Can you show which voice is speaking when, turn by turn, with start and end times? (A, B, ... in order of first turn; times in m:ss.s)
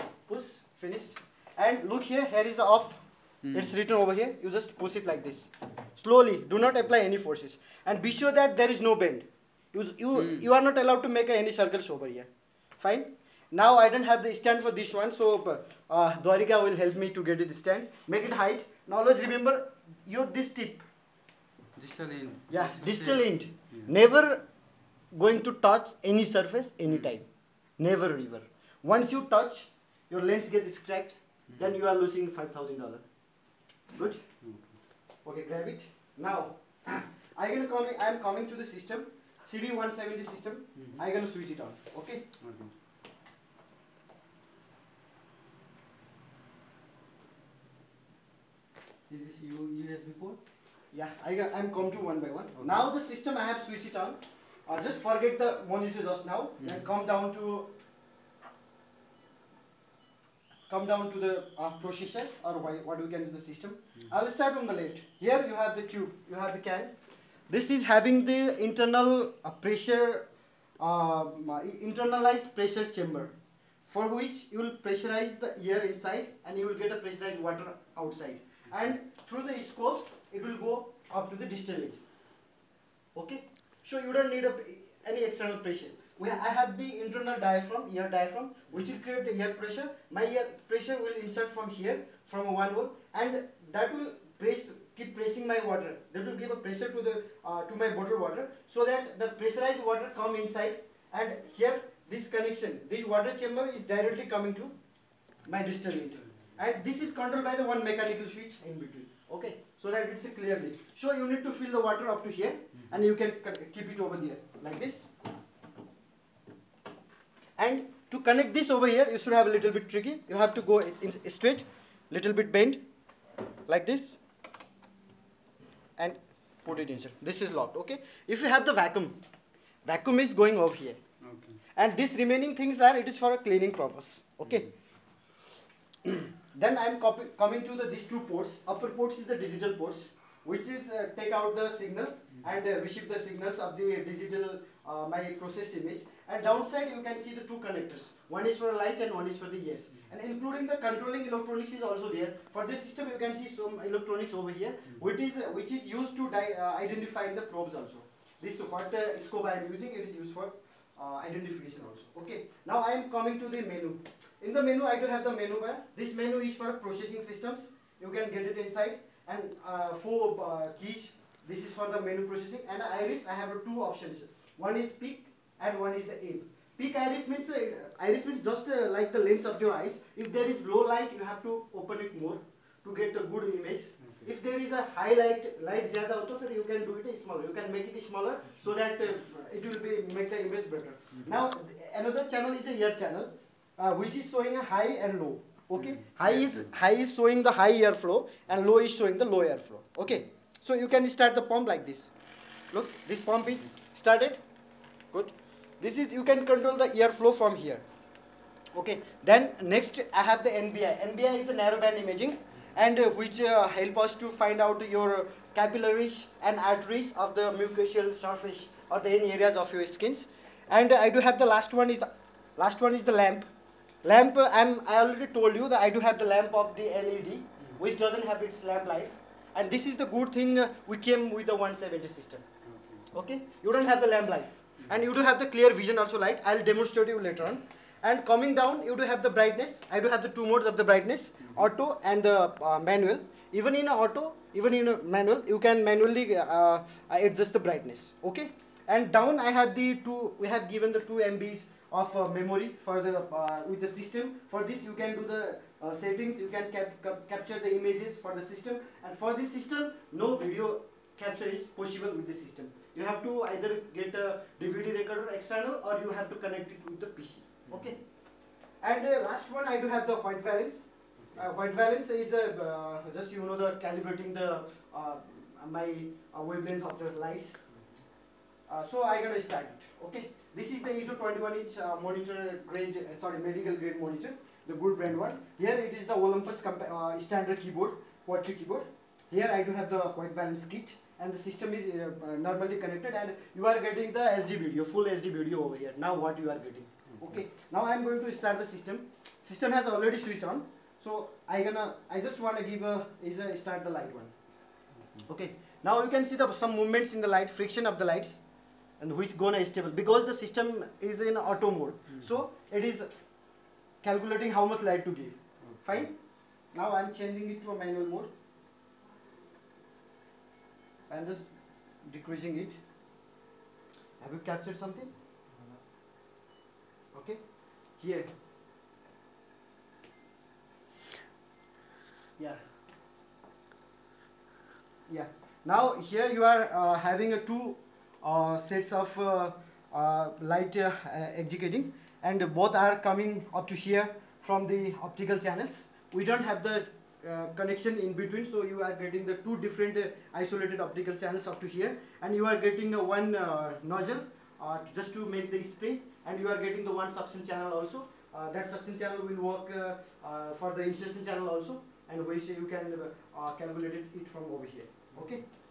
0:00.2-0:20.8 A
0:03.4-0:03.7 B
0:10.2-0:10.4 B
0:21.8-0:23.9 B
0:22.5-0:24.4 A
0:25.1-0:27.2 A
0:27.8-0:33.0 A
0:33.9-0:34.2 A
0:34.4-0:34.7 B
0:35.2-0:42.3 A
0:42.4-0:42.7 B
0:49.1-0:50.4 B
0:50.9-0:57.7 A
1:00.7-1:06.9 A
1:07.5-1:10.3 A
1:10.8-1:13.3 A
1:13.8-1:22.0 A
1:23.1-1:44.7 A
1:45.4-1:55.1 A
1:57.6-2:02.8 A
2:03.7-2:04.2 A
2:06.0-2:09.2 A
2:09.8-2:11.0 A
2:11.2-2:11.6 B
2:11.7-2:14.7 A
2:16.0-3:22.1 A
3:04.0-3:04.3 B
3:15.8-3:16.6 B
3:22.7-3:24.4 A
3:25.1-3:27.8 A
3:28.7-3:43.5 A
3:44.0-3:52.4 A
3:52.6-3:53.1 B
3:53.1-4:28.0 A
4:28.8-4:37.6 A
4:37.7-4:38.0 B
4:38.7-5:04.3 A
4:57.1-4:57.4 B
5:05.0-5:05.2 B
5:05.3-5:08.4 A
5:09.0-5:13.1 A
5:14.0-5:16.1 A
5:15.6-5:16.0 B
5:16.7-5:18.3 A
5:21.1-5:21.5 A
5:22.0-5:22.8 A
5:24.2-5:25.1 A
5:27.1-5:27.4 A
5:28.0-5:28.3 A
5:35.1-6:05.4 A